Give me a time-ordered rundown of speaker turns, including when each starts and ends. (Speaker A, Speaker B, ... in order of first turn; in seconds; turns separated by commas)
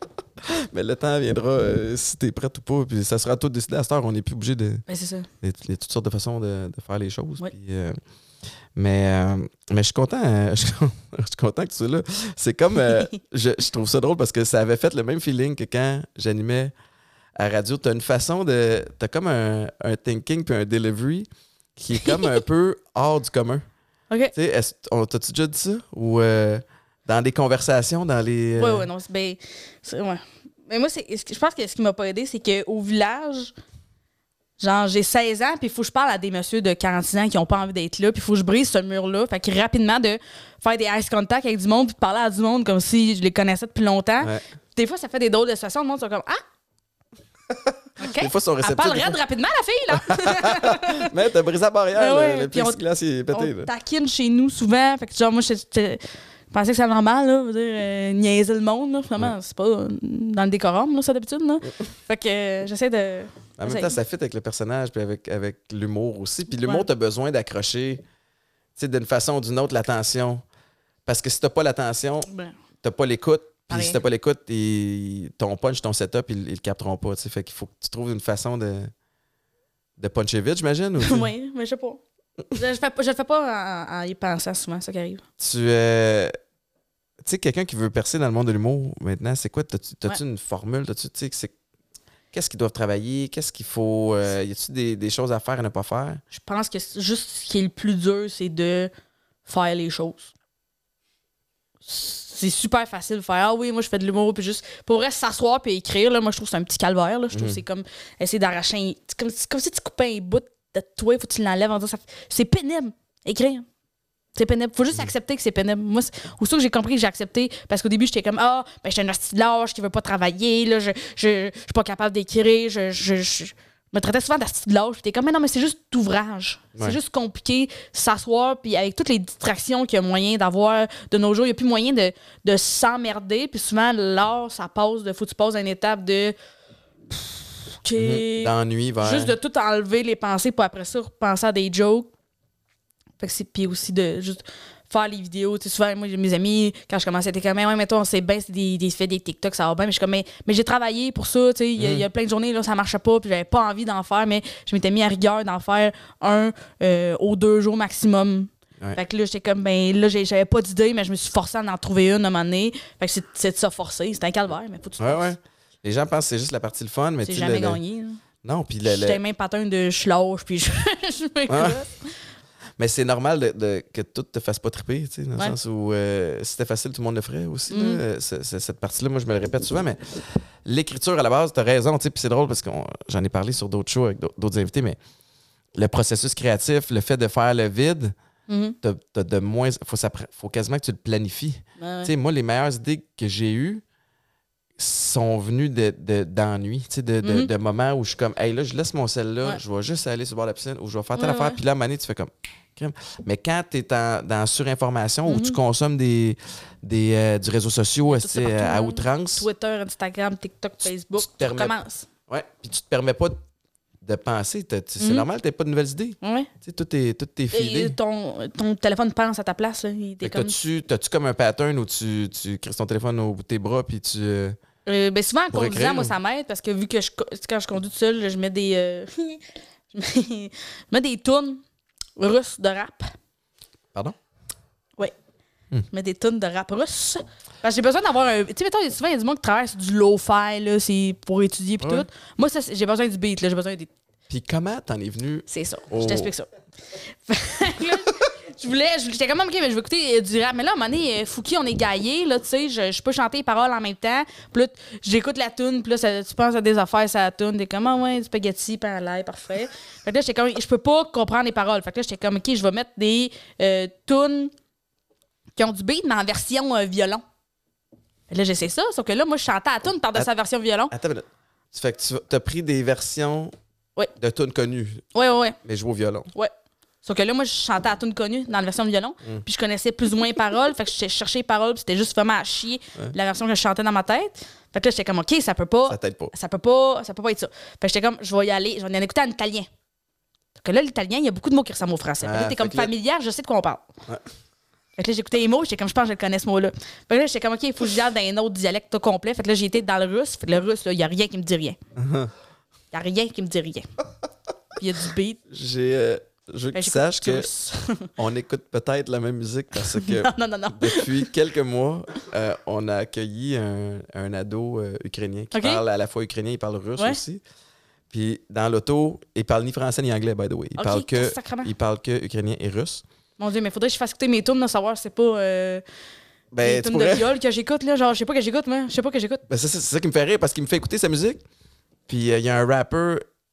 Speaker A: 0.4-4.8, Speaker B: 4.9-5.3, Speaker A: 5.4-8.0, Speaker A: 8.7-16.7, Speaker A: 17.4-23.6, Speaker B: 22.0-22.3, Speaker A: 24.3-28.9, Speaker B: 28.6-33.5, Speaker B: 34.6-46.4, Speaker A: 47.5-49.2, Speaker B: 48.0-51.1, Speaker A: 49.9-53.7, Speaker B: 51.9-52.8, Speaker B: 53.3-64.0, Speaker A: 63.6-68.0, Speaker B: 66.6-66.9, Speaker A: 68.8-70.4, Speaker A: 71.0-72.3, Speaker B: 72.3-72.5, Speaker A: 72.8-78.9, Speaker B: 73.7-74.0, Speaker A: 80.0-81.3, Speaker B: 81.0-82.0, Speaker B: 82.5-85.2, Speaker A: 85.4-86.3, Speaker A: 87.2-91.5, Speaker A: 92.3-96.2, Speaker B: 96.3-98.9, Speaker B: 99.5-100.3, Speaker B: 101.8-113.7, Speaker A: 107.3-107.6, Speaker B: 114.3-136.3, Speaker B: 137.1-142.1, Speaker A: 138.0-139.3, Speaker B: 143.2-165.3, Speaker A: 151.8-152.0, Speaker A: 165.0-167.8, Speaker B: 167.2-168.2, Speaker A: 168.4-169.2, Speaker B: 168.8-172.2, Speaker A: 171.5-171.8, Speaker A: 172.8-185.0, Speaker B: 177.7-178.0, Speaker A: 185.8-188.1, Speaker B: 188.5-188.8, Speaker A: 188.8-193.8, Speaker B: 191.8-192.1, Speaker A: 194.8-209.5, Speaker B: 197.2-197.5, Speaker B: 201.1-201.6, Speaker B: 205.3-205.6, Speaker B: 208.1-212.1, Speaker A: 211.2-211.7, Speaker A: 212.3-213.4, Speaker A: 214.0-217.9, Speaker B: 215.0-215.2, Speaker B: 216.2-216.5, Speaker B: 217.5-220.6, Speaker A: 220.2-224.6, Speaker B: 224.8-231.6, Speaker A: 225.5-226.1, Speaker B: 232.2-233.1, Speaker B: 235.9-243.9, Speaker A: 241.8-242.1, Speaker A: 244.3-246.3, Speaker B: 245.5-264.5, Speaker B: 265.6-267.2, Speaker B: 268.3-270.9, Speaker A: 270.9-273.5, Speaker A: 274.1-275.0, Speaker B: 275.1-275.6, Speaker A: 275.6-276.3, Speaker B: 277.0-289.7, Speaker A: 285.9-286.3, Speaker B: 290.6-293.9, Speaker A: 292.2-292.9, Speaker B: 295.0-301.8, Speaker A: 301.9-302.3, Speaker B: 302.9-303.9, Speaker B: 304.8-305.4, Speaker A: 305.5-307.5, Speaker B: 306.7-308.1, Speaker A: 308.1-317.4, Speaker B: 309.8-311.3, Speaker B: 315.5-315.8, Speaker A: 318.1-323.0, Speaker B: 320.8-321.7, Speaker B: 323.4-325.8, Speaker A: 326.5-327.3, Speaker B: 326.6-329.4, Speaker A: 329.5-331.4, Speaker A: 332.1-333.2